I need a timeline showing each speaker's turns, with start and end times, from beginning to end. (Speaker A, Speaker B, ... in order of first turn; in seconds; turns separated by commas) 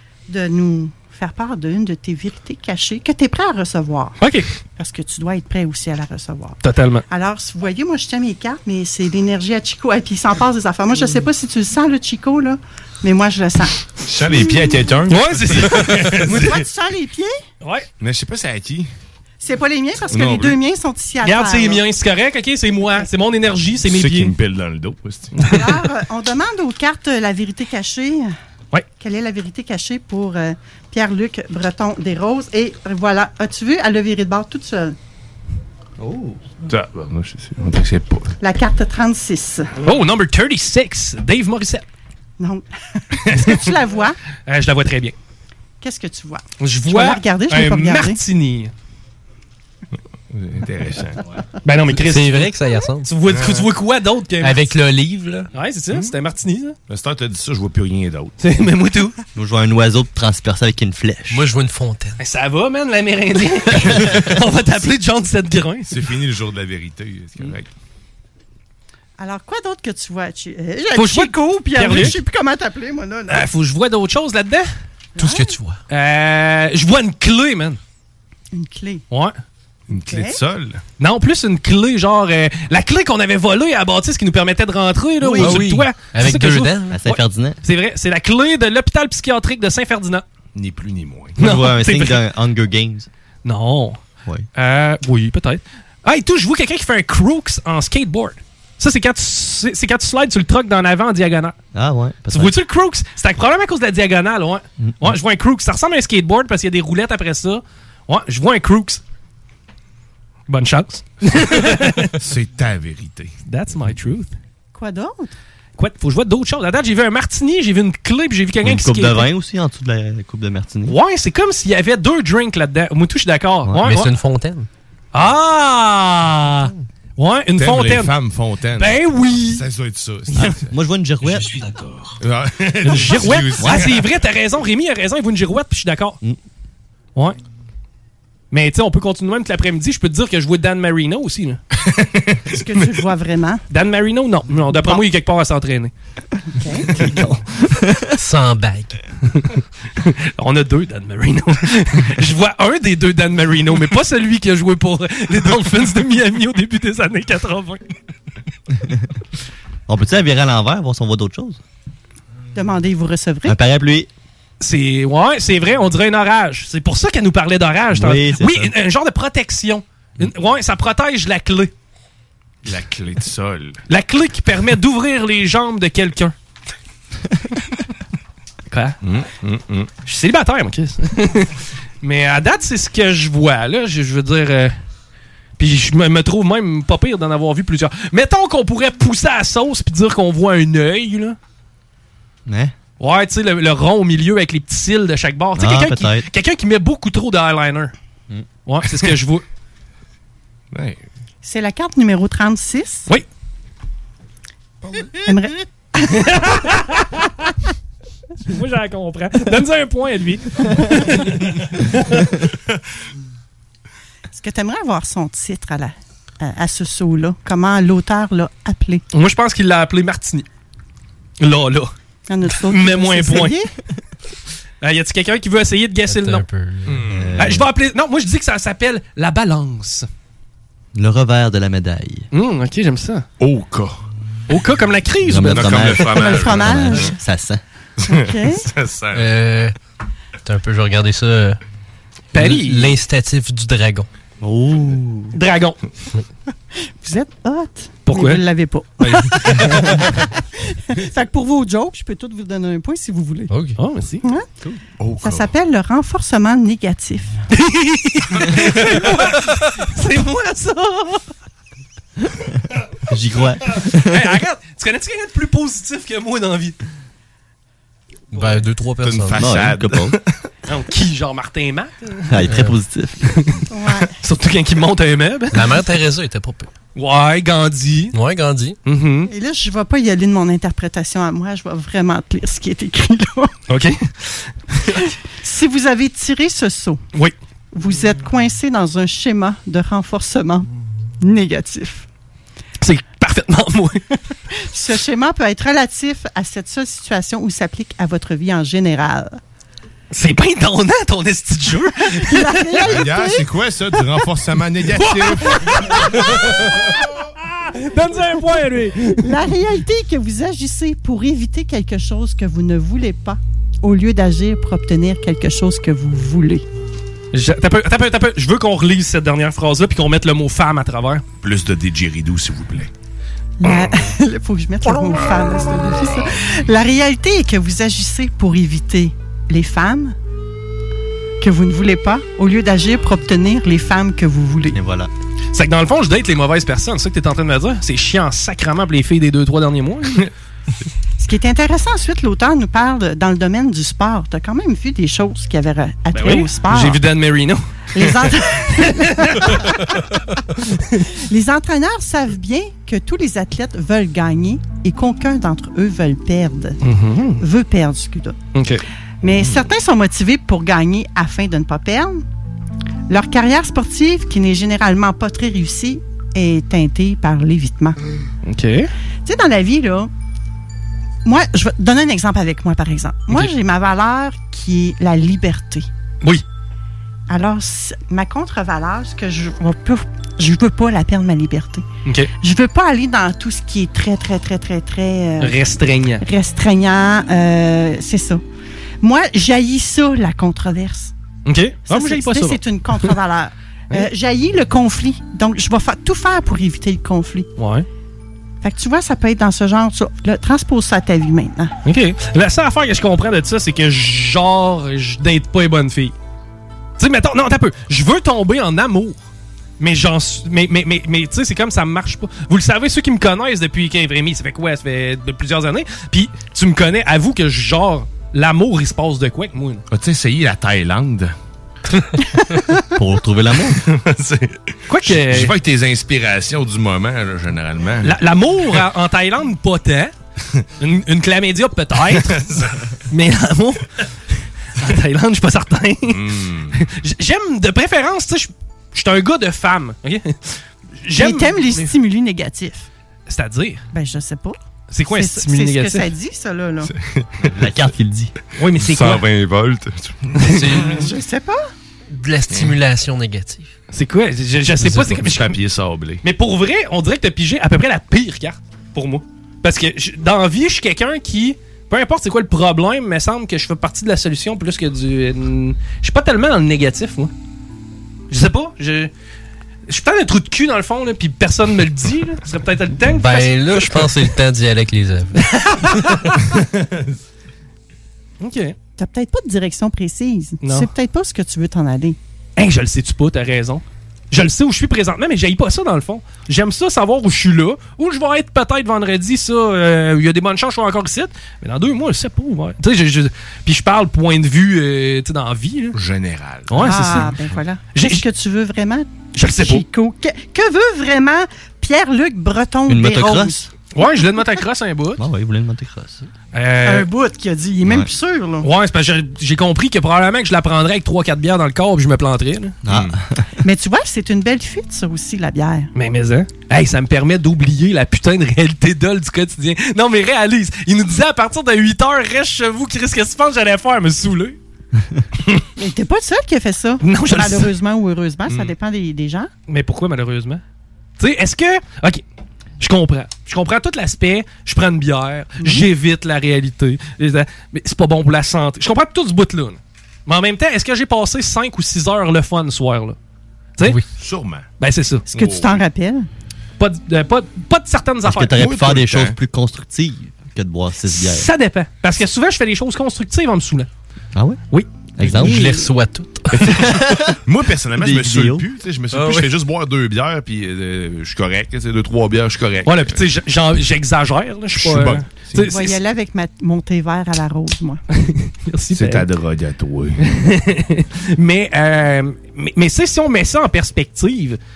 Speaker A: 0.3-4.2, Speaker B: 4.2-4.5, Speaker A: 4.8-6.6, Speaker B: 6.6-7.0, Speaker A: 7.1-14.8, Speaker C: 14.1-16.6, Speaker B: 15.1-16.4, Speaker A: 15.9-17.4, Speaker B: 17.6-17.9, Speaker C: 18.0-18.9, Speaker A: 19.4-21.8, Speaker C: 20.1-20.6, Speaker B: 21.2-24.3, Speaker C: 23.9-25.5, Speaker A: 25.4-28.3, Speaker A: 29.0-35.0, Speaker C: 36.6-38.3, Speaker A: 38.4-39.7, Speaker B: 39.8-41.9, Speaker A: 42.4-44.2, Speaker B: 43.3-43.6, Speaker B: 44.5-45.1, Speaker A: 45.8-48.2, Speaker B: 46.6-48.7, Speaker C: 50.3-51.2, Speaker B: 51.6-54.7, Speaker D: 52.0-53.1, Speaker C: 53.3-53.7, Speaker D: 54.4-55.5, Speaker B: 55.5-56.8, Speaker C: 56.9-58.4, Speaker B: 58.4-59.1, Speaker E: 59.4-61.4, Speaker D: 61.3-62.2, Speaker B: 62.2-65.9, Speaker C: 65.9-67.7, Speaker A: 69.2-73.5, Speaker B: 71.0-72.2, Speaker B: 73.3-74.7, Speaker A: 75.2-75.6, Speaker D: 75.2-75.8, Speaker B: 75.9-77.8, Speaker A: 78.5-79.0, Speaker B: 79.1-79.4, Speaker C: 79.9-80.8, Speaker A: 80.1-80.4, Speaker B: 81.0-90.2, Speaker E: 85.3-85.6, Speaker D: 85.3-87.1, Speaker E: 86.9-87.6, Speaker C: 90.5-91.4, Speaker B: 91.4-92.2, Speaker E: 91.4-93.1, Speaker B: 93.5-94.0, Speaker B: 94.5-101.6, Speaker E: 101.7-102.6, Speaker B: 102.3-109.0, Speaker E: 104.8-105.2, Speaker B: 110.5-112.1, Speaker C: 112.1-113.3, Speaker B: 113.5-114.3, Speaker A: 114.7-115.4, Speaker B: 115.8-119.3, Speaker E: 118.6-121.0, Speaker B: 120.9-124.1, Speaker D: 123.8-124.7, Speaker B: 125.1-128.1, Speaker C: 127.6-130.7, Speaker B: 128.8-129.6, Speaker E: 130.3-131.5, Speaker C: 132.2-134.1, Speaker B: 132.8-136.2, Speaker E: 133.6-134.0, Speaker B: 138.5-141.6, Speaker A: 142.5-143.6, Speaker B: 143.7-145.9, Speaker A: 144.7-145.0, Speaker A: 146.6-146.9, Speaker E: 146.9-148.2, Speaker D: 148.2-149.0, Speaker B: 150.0-157.8, Speaker E: 159.9-161.6, Speaker A: 162.5-163.6, Speaker E: 163.4-164.1, Speaker B: 164.6-171.7, Speaker E: 167.9-168.7, Speaker C: 172.6-173.8, Speaker B: 173.9-176.3, Speaker B: 178.7-179.0, Speaker C: 179.0-179.9, Speaker B: 180.0-184.8, Speaker B: 185.6-191.4, Speaker E: 192.5-192.7, Speaker B: 193.0-197.9, Speaker E: 195.6-196.3, Speaker B: 198.7-199.4, Speaker C: 200.7-201.0, Speaker A: 201.4-203.1, Speaker A: 205.2-206.3, Speaker B: 206.1-207.5, Speaker B: 208.4-212.3, Speaker A: 214.3-219.0, Speaker B: 219.1-220.5, Speaker B: 221.4-221.9, Speaker A: 222.3-223.7, Speaker B: 222.6-223.6, Speaker B: 224.8-226.4, Speaker D: 226.1-227.0, Speaker C: 226.9-227.4, Speaker E: 227.1-227.7, Speaker B: 227.4-230.1, Speaker E: 230.9-232.3, Speaker B: 232.3-233.3, Speaker C: 233.4-234.0, Speaker B: 234.5-236.0, Speaker E: 235.2-237.6, Speaker C: 235.5-237.1, Speaker A: 236.1-237.2, Speaker C: 238.0-239.3, Speaker A: 238.1-238.7, Speaker D: 239.1-239.8, Speaker D: 240.4-241.6, Speaker B: 242.3-243.0, Speaker D: 242.3-244.1, Speaker E: 244.4-245.3, Speaker B: 245.3-245.8, Speaker A: 247.0-253.5, Speaker B: 248.1-248.4, Speaker B: 249.0-250.0, Speaker D: 253.5-253.8, Speaker B: 253.8-254.2, Speaker C: 255.0-255.5, Speaker A: 255.2-257.4, Speaker B: 257.6-261.2, Speaker E: 263.1-264.3, Speaker B: 264.1-266.8, Speaker D: 268.3-269.6, Speaker C: 269.0-270.3, Speaker E: 269.3-270.2, Speaker B: 270.7-272.3, Speaker E: 272.3-273.3, Speaker D: 272.5-272.8, Speaker B: 273.3-273.6, Speaker A: 273.7-274.1, Speaker B: 274.2-275.6, Speaker D: 275.5-276.7, Speaker B: 277.0-278.1, Speaker D: 278.1-278.8, Speaker B: 278.9-279.3, Speaker A: 279.3-283.5, Speaker B: 283.7-285.0, Speaker A: 285.4-287.0, Speaker A: 287.7-290.7, Speaker A: 291.2-292.1, Speaker B: 292.8-294.0, Speaker A: 294.5-299.4, Speaker B: 300.1-302.8, Speaker A: 302.1-303.5, Speaker C: 302.8-306.0, Speaker B: 305.0-309.3, Speaker A: 306.0-306.5, Speaker A: 309.2-316.6, Speaker B: 317.3-321.2, Speaker C: 321.4-322.9, Speaker A: 323.6-330.1, Speaker A: 331.4-334.8, Speaker E: 334.7-335.1, Speaker B: 335.5-340.3, Speaker A: 341.2-347.0, Speaker B: 346.1-349.8, Speaker A: 347.9-350.0, Speaker B: 350.8-351.0, Speaker A: 351.2-356.8, Speaker B: 356.8-357.4, Speaker A: 357.4-358.4, Speaker B: 358.5-358.8, Speaker A: 359.2-362.2, Speaker A: 363.1-368.0, Speaker B: 368.4-368.9, Speaker A: 369.2-370.1, Speaker A: 371.2-375.9, Speaker A: 377.3-381.9, Speaker B: 382.1-382.3, Speaker A: 382.4-385.6, Speaker B: 385.4-386.2, Speaker A: 386.2-388.4, Speaker A: 389.0-391.1, Speaker B: 391.5-393.1, Speaker A: 391.9-397.5, Speaker B: 397.6-397.9, Speaker A: 398.6-401.7, Speaker B: 401.9-406.1, Speaker B: 407.0-409.2, Speaker B: 409.8-419.8, Speaker C: 419.9-421.3, Speaker E: 422.9-423.8, Speaker C: 423.8-428.2, Speaker B: 424.9-425.5, Speaker B: 428.0-430.1, Speaker B: 430.8-432.4, Speaker C: 432.1-432.9, Speaker B: 433.1-433.9, Speaker B: 434.8-436.2, Speaker C: 436.1-436.8, Speaker B: 436.7-441.9, Speaker A: 441.2-442.9, Speaker B: 443.3-443.9, Speaker A: 443.9-444.6, Speaker B: 444.9-446.1, Speaker A: 445.1-446.9, Speaker C: 446.9-447.5, Speaker E: 447.4-448.3, Speaker B: 448.6-449.2, Speaker C: 448.8-450.9, Speaker B: 450.4-450.8, Speaker D: 450.5-451.1, Speaker A: 450.7-451.7, Speaker D: 452.1-453.7, Speaker C: 452.5-452.8, Speaker B: 453.9-455.6, Speaker C: 454.9-456.2, Speaker B: 456.2-467.3, Speaker B: 468.3-469.1, Speaker B: 469.9-474.3, Speaker D: 473.1-475.4, Speaker B: 475.5-476.3, Speaker C: 476.5-477.1, Speaker B: 478.4-478.8, Speaker A: 479.0-482.2, Speaker B: 480.6-480.9, Speaker B: 482.6-496.0, Speaker C: 495.9-497.2, Speaker B: 496.7-497.4, Speaker A: 496.8-503.7, Speaker B: 497.9-498.2, Speaker B: 499.4-499.9, Speaker E: 502.9-503.6, Speaker B: 503.9-505.2, Speaker E: 505.2-506.2, Speaker B: 506.5-507.1, Speaker A: 506.8-508.7, Speaker E: 507.8-508.1, Speaker B: 508.6-512.8, Speaker E: 512.8-513.5, Speaker C: 512.9-513.1, Speaker A: 513.6-515.9, Speaker B: 516.0-524.6, Speaker A: 525.8-529.5, Speaker B: 527.0-527.7, Speaker B: 529.7-530.6, Speaker B: 531.2-532.2, Speaker B: 532.8-543.2, Speaker C: 544.2-544.7, Speaker B: 544.8-545.3, Speaker C: 545.3-545.8, Speaker A: 545.3-546.3, Speaker B: 546.8-548.6, Speaker E: 548.2-551.5, Speaker C: 548.5-549.4, Speaker B: 551.1-553.9, Speaker E: 554.3-554.6, Speaker E: 555.2-555.9, Speaker D: 555.2-556.9, Speaker E: 556.6-557.4, Speaker C: 557.5-563.2, Speaker E: 558.0-558.6, Speaker D: 559.1-559.5, Speaker B: 562.9-566.0, Speaker C: 564.7-565.7, Speaker A: 565.7-568.0, Speaker B: 568.1-569.2, Speaker C: 568.9-570.2, Speaker B: 570.2-574.6